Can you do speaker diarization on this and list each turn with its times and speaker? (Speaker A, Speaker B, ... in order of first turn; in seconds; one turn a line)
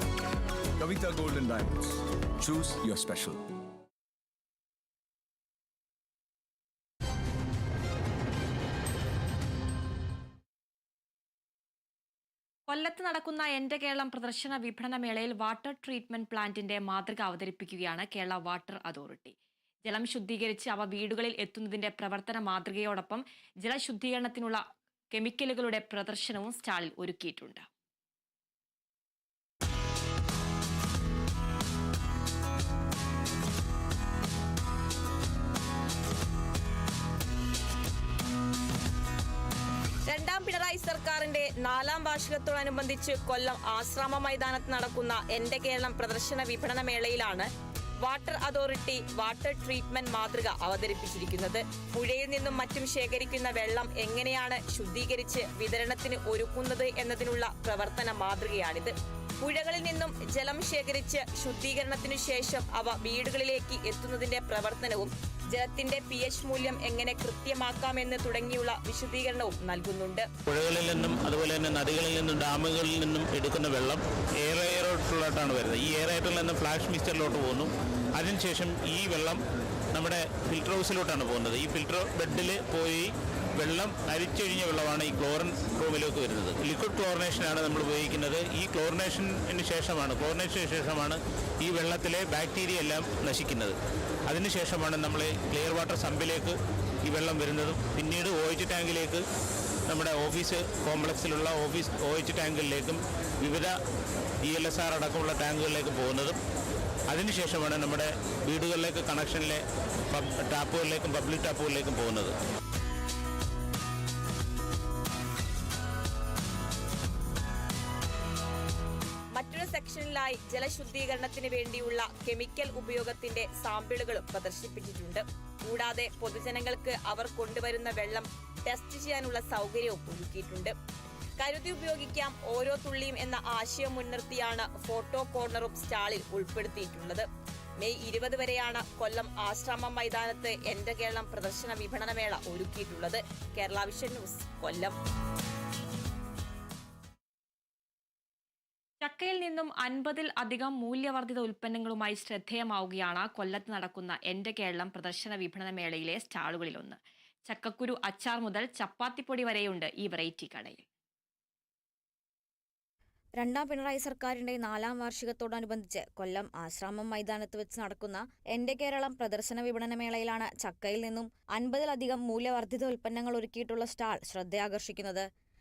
Speaker A: 0.8-3.4
Speaker B: 12.7-27.6
Speaker C: 40.1-47.5
Speaker C: 48.0-70.3
Speaker D: 70.5-79.3
Speaker D: 79.9-93.7
Speaker D: 94.3-99.2
Speaker D: 99.9-103.7
Speaker D: 104.4-106.3
Speaker D: 107.1-109.6
Speaker D: 110.1-112.3
Speaker C: 119.3-130.7
Speaker C: 131.4-137.2
Speaker C: 137.8-144.9
Speaker B: 149.0-160.8
Speaker E: 163.4-175.2